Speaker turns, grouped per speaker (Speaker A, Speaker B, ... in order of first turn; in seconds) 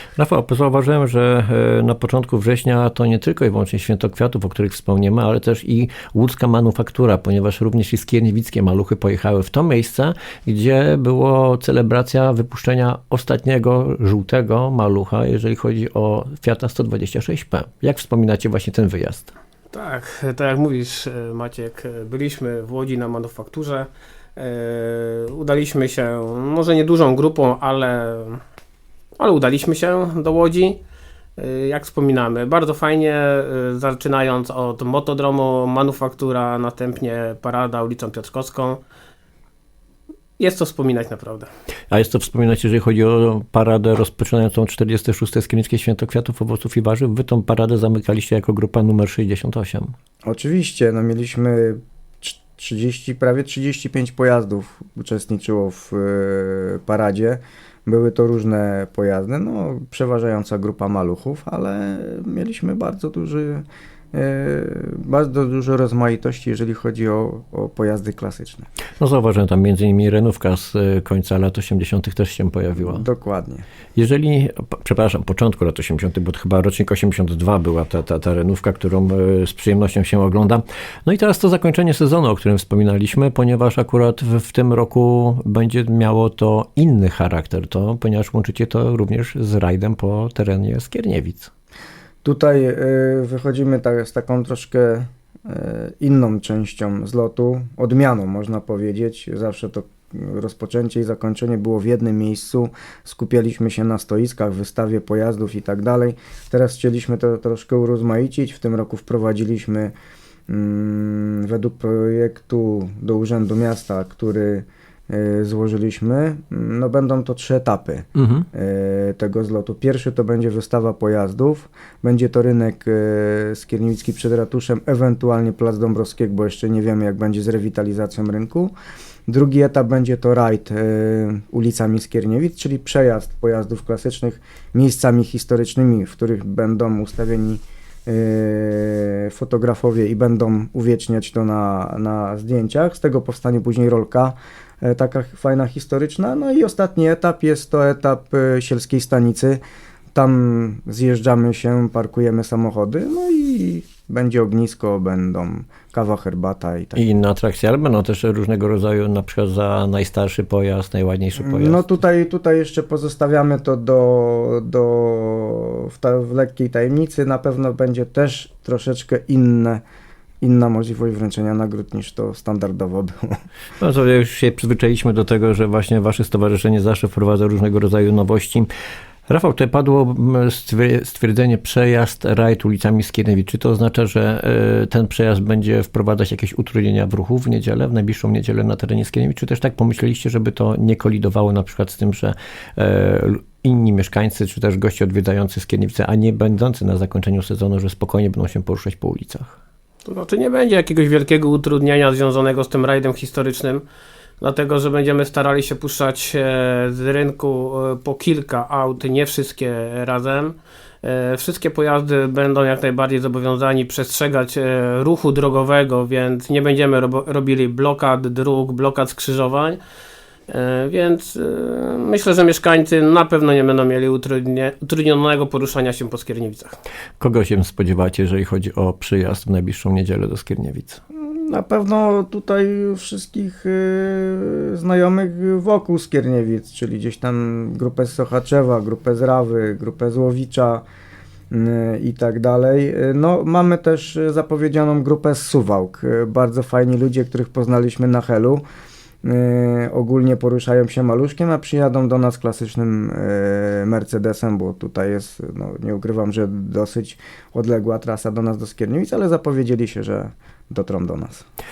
Speaker A: 0.2-19.3, 41.9-49.9, 69.0-73.0, 74.0-91.5, 118.2-118.5, 156.9-162.0, 173.8-178.7, 179.3-199.6, 227.2-231.0
Speaker B: 19.7-28.4, 29.2-30.8, 31.4-38.8, 40.4-41.5, 200.1-203.8, 204.4-219.8, 220.5-226.7
Speaker C: 50.2-68.7, 72.8-73.6, 92.2-109.9, 110.5-128.7, 129.3-149.6, 150.1-157.0, 161.4-169.8, 170.4-173.4, 231.2-240.8, 241.5-248.6, 249.2-261.4